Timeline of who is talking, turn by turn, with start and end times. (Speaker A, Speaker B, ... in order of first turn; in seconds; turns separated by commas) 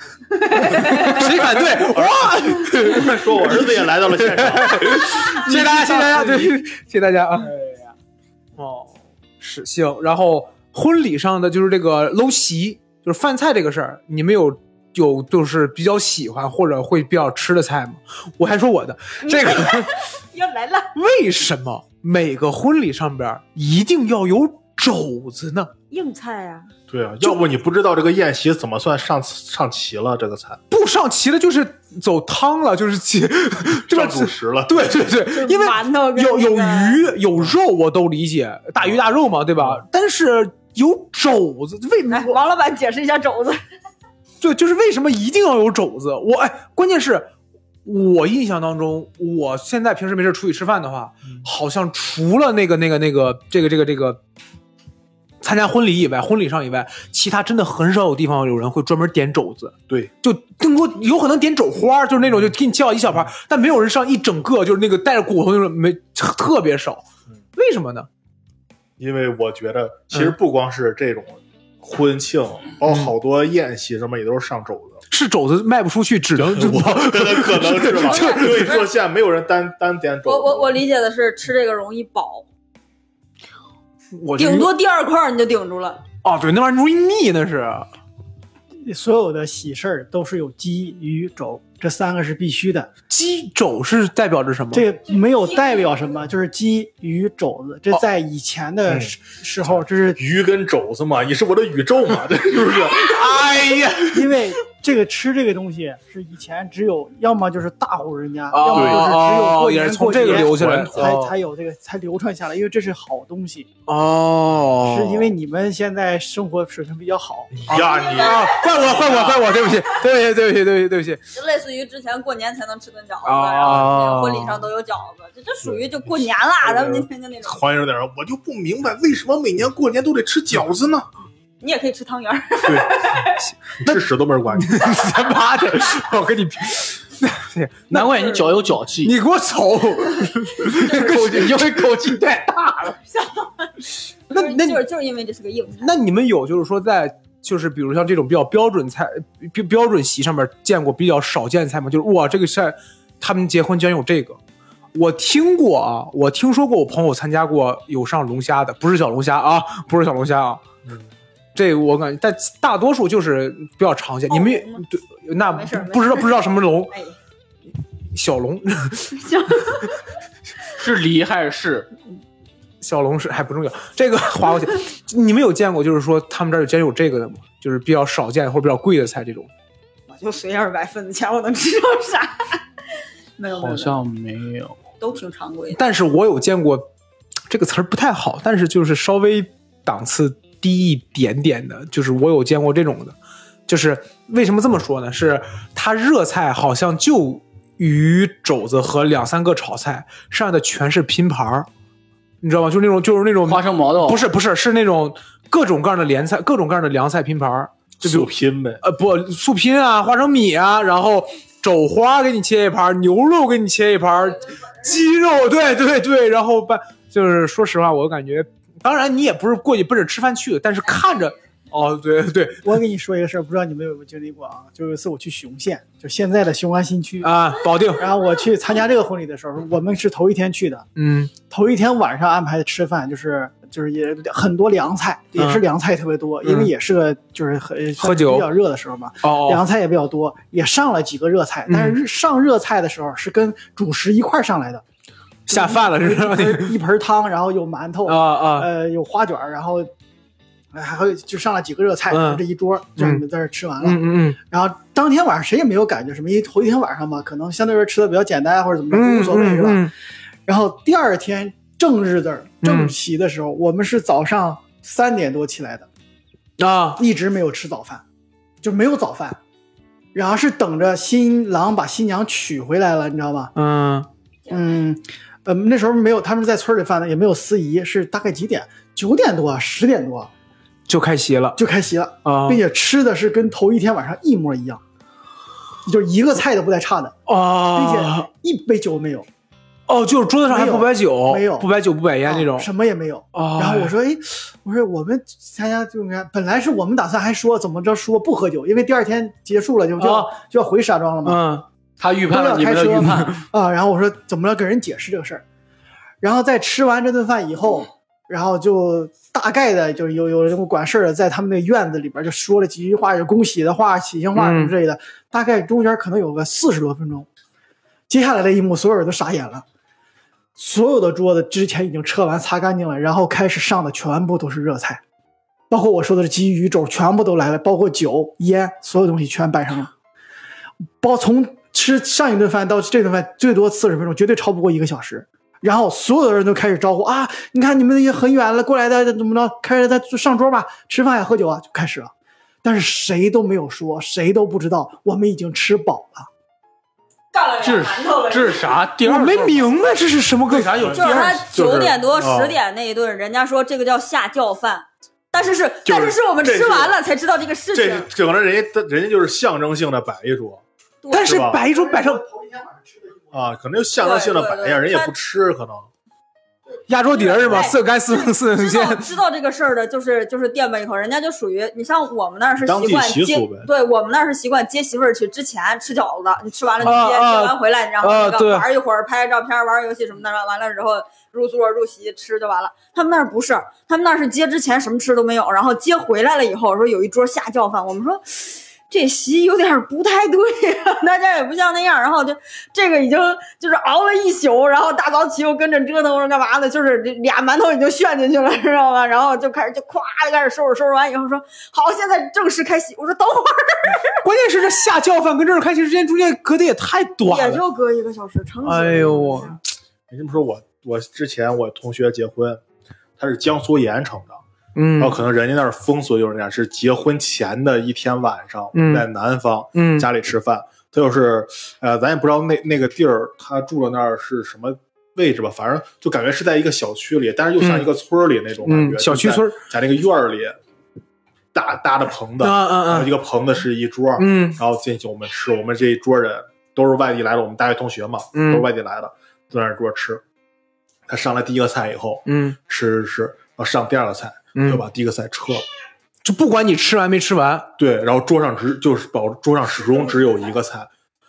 Speaker A: 0.3-1.2, Speaker B: 0.7-7.5, Speaker C: 0.8-1.7, Speaker D: 1.9-5.1, Speaker C: 5.3-6.5, Speaker C: 7.3-7.9, Speaker B: 8.6-19.9, Speaker A: 19.2-20.9, Speaker B: 20.9-25.7, Speaker A: 25.9-26.7, Speaker D: 26.9-30.6, Speaker B: 30.7-42.4, Speaker D: 33.9-35.1, Speaker A: 35.3-37.0, Speaker D: 39.6-39.8, Speaker A: 42.1-43.6, Speaker B: 44.4-47.3, Speaker B: 47.8-54.2, Speaker B: 55.4-67.0, Speaker B: 67.5-68.1, Speaker D: 69.0-75.0, Speaker B: 75.1-78.7, Speaker D: 76.3-80.7, Speaker A: 78.1-78.8, Speaker A: 80.3-82.4, Speaker B: 84.1-84.7, Speaker A: 84.4-86.0, Speaker B: 86.2-87.9, Speaker E: 88.8-92.9, Speaker B: 93.1-94.8, Speaker E: 94.7-100.2, Speaker D: 98.9-99.1, Speaker D: 99.7-103.2, Speaker B: 103.0-104.3, Speaker E: 104.1-113.7, Speaker B: 108.5-111.3, Speaker D: 108.7-109.1, Speaker D: 110.2-111.2, Speaker B: 113.9-115.3, Speaker E: 114.8-117.6, Speaker D: 117.5-119.4, Speaker B: 117.7-121.2, Speaker A: 117.7-119.8, Speaker A: 121.3-127.6, Speaker B: 123.2-124.7, Speaker D: 125.6-131.1, Speaker A: 131.6-133.5, Speaker D: 132.6-133.1, Speaker D: 133.8-135.0, Speaker B: 133.8-142.0, Speaker C: 137.9-139.1, Speaker C: 140.8-143.0, Speaker A: 143.1-143.7, Speaker A: 144.3-145.9, Speaker B: 144.3-144.8, Speaker B: 145.8-154.4, Speaker B: 154.9-160.6, Speaker B: 161.5-166.9, Speaker A: 164.3-164.8, Speaker A: 165.4-167.2, Speaker B: 168.1-169.2, Speaker A: 169.1-170.0, Speaker C: 170.7-171.9, Speaker B: 172.8-179.5, Speaker A: 180.1-182.6, Speaker A: 183.4-184.0, Speaker C: 183.5-184.8, Speaker A: 185.0-185.8, Speaker B: 185.7-186.9, Speaker B: 187.5-193.2, Speaker B: 193.7-201.7, Speaker B: 202.4-208.3, Speaker C: 203.4-204.2, Speaker D: 208.0-208.8, Speaker B: 208.8-222.7, Speaker E: 222.6-227.3, Speaker B: 227.2-228.0, Speaker E: 227.9-230.9, Speaker B: 230.9-231.3, Speaker E: 231.5-244.8, Speaker B: 235.4-235.6, Speaker B: 236.4-236.7, Speaker B: 238.0-238.5, Speaker B: 239.2-239.6, Speaker B: 241.7-242.0, Speaker E: 245.5-249.9, Speaker B: 245.5-246.7, Speaker B: 248.1-248.7, Speaker E: 250.7-259.9, Speaker B: 252.1-252.4, Speaker B: 253.0-253.2, Speaker B: 253.8-254.4, Speaker B: 258.9-259.9, Speaker E: 260.4-265.9, Speaker B: 262.6-262.9, Speaker B: 266.6-267.0, Speaker E: 267.0-268.0, Speaker E: 268.6-269.4, Speaker E: 270.1-273.5, Speaker B: 273.5-274.1, Speaker E: 274.5-280.3, Speaker B: 280.9-281.6, Speaker E: 281.6-284.8, Speaker B: 282.2-282.6, Speaker E: 285.8-287.2, Speaker B: 287.3-288.3, Speaker E: 287.7-289.3, Speaker B: 289.9-292.7, Speaker E: 290.5-291.7, Speaker E: 292.2-301.4, Speaker B: 293.3-293.9, Speaker B: 300.0-300.3, Speaker B: 301.2-301.6, Speaker C: 302.0-303.4, Speaker E: 302.3-305.4, Speaker E: 306.2-317.3, Speaker B: 314.4-314.7, Speaker E: 318.1-319.6, Speaker E: 320.6-325.0, Speaker E: 325.7-329.9, Speaker E: 331.0-342.1, Speaker E: 342.6-346.3, Speaker A: 347.3-348.8, Speaker C: 347.6-349.9, Speaker B: 349.0-350.8, Speaker C: 350.5-351.6, Speaker D: 350.8-352.6, Speaker A: 350.9-358.1, Speaker D: 355.8-357.0, Speaker D: 357.7-361.6, Speaker A: 361.0-361.4, Speaker B: 361.1-362.2, Speaker E: 362.0-362.7, Speaker D: 363.3-365.9, Speaker A: 364.0-365.1, Speaker B: 366.9-369.1, Speaker A: 367.1-404.2, Speaker D: 367.4-367.7, Speaker D: 372.6-373.7, Speaker B: 376.8-378.7, Speaker B: 404.2-407.6, Speaker A: 407.3-409.6, Speaker B: 408.6-409.6, Speaker D: 410.1-412.6, Speaker D: 413.2-414.4, Speaker B: 414.7-415.2, Speaker D: 415.0-430.6, Speaker B: 418.7-419.1, Speaker B: 419.7-420.1, Speaker B: 427.6-427.9, Speaker B: 428.6-429.6, Speaker D: 431.5-440.2, Speaker B: 432.4-433.1, Speaker B: 434.2-434.6, Speaker B: 438.3-438.7, Speaker D: 441.1-445.6, Speaker B: 442.3-442.6, Speaker B: 444.5-444.8, Speaker B: 446.2-447.7, Speaker D: 447.8-450.9